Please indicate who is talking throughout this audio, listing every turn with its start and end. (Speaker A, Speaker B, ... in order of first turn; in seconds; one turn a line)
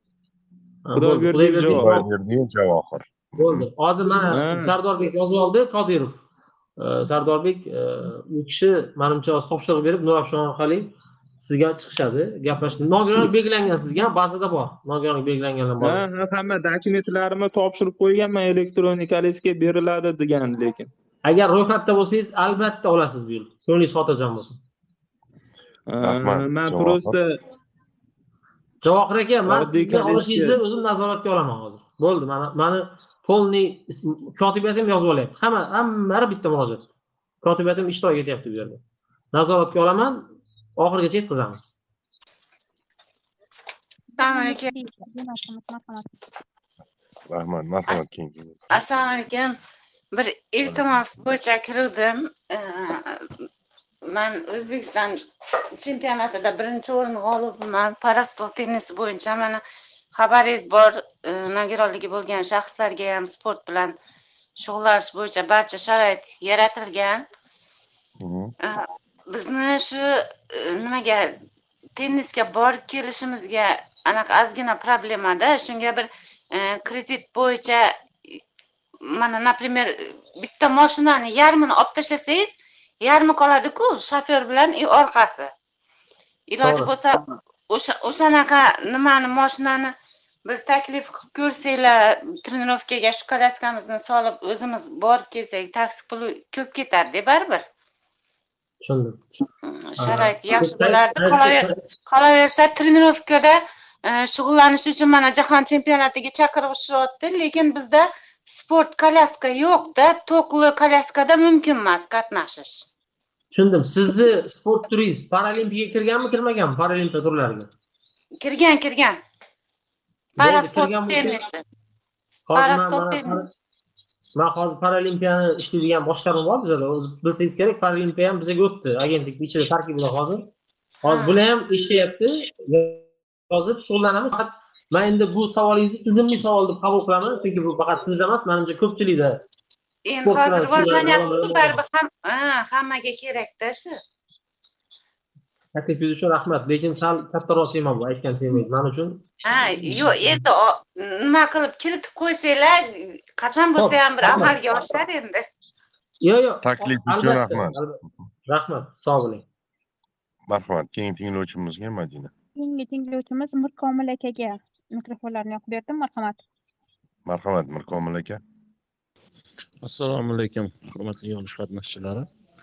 Speaker A: 0.9-2.0
Speaker B: 0.9-2.0
Speaker C: 1.7-3.7
Speaker A: 3.4-6.2
Speaker B: 4.3-4.7
Speaker A: 6.8-16.0
Speaker B: 15.8-20.9
Speaker A: 21.2-24.6
Speaker B: 25.9-27.4
Speaker C: 26.0-27.2
Speaker A: 28.8-36.9
Speaker B: 29.5-30.6
Speaker A: 37.4-38.8
Speaker A: 39.3-41.7
Speaker D: 44.2-46.1
Speaker E: 44.2-44.7
Speaker C: 47.3-48.6
Speaker E: 48.7-49.6
Speaker E: 50.1-53.3
Speaker E: 54.1-55.2
Speaker E: 55.8-59.6
Speaker E: 60.1-64.0
Speaker E: 64.6-67.2
Speaker C: 68.2-68.5
Speaker E: 68.6-71.4
Speaker E: 72.0-78.4
Speaker E: 79.1-85.5
Speaker E: 86.5-90.0
Speaker A: 86.6-86.9
Speaker E: 90.5-97.7
Speaker A: 98.8-99.5
Speaker E: 99.7-112.8
Speaker A: 100.0-101.8
Speaker A: 113.5-117.7
Speaker E: 118.4-119.2
Speaker A: 120.4-121.4
Speaker E: 120.4-121.6
Speaker A: 122.5-123.5
Speaker E: 122.5-123.4
Speaker A: 124.4-130.5
Speaker E: 131.1-131.4
Speaker A: 131.1-139.4
Speaker E: 140.1-144.0
Speaker A: 140.2-141.8
Speaker A: 145.8-149.2
Speaker E: 149.4-155.4
Speaker A: 153.8-155.0
Speaker A: 156.2-159.4
Speaker C: 156.6-157.8
Speaker C: 160.5-162.3
Speaker D: 162.6-166.4
Speaker C: 167.3-168.4
Speaker F: 169.8-172.3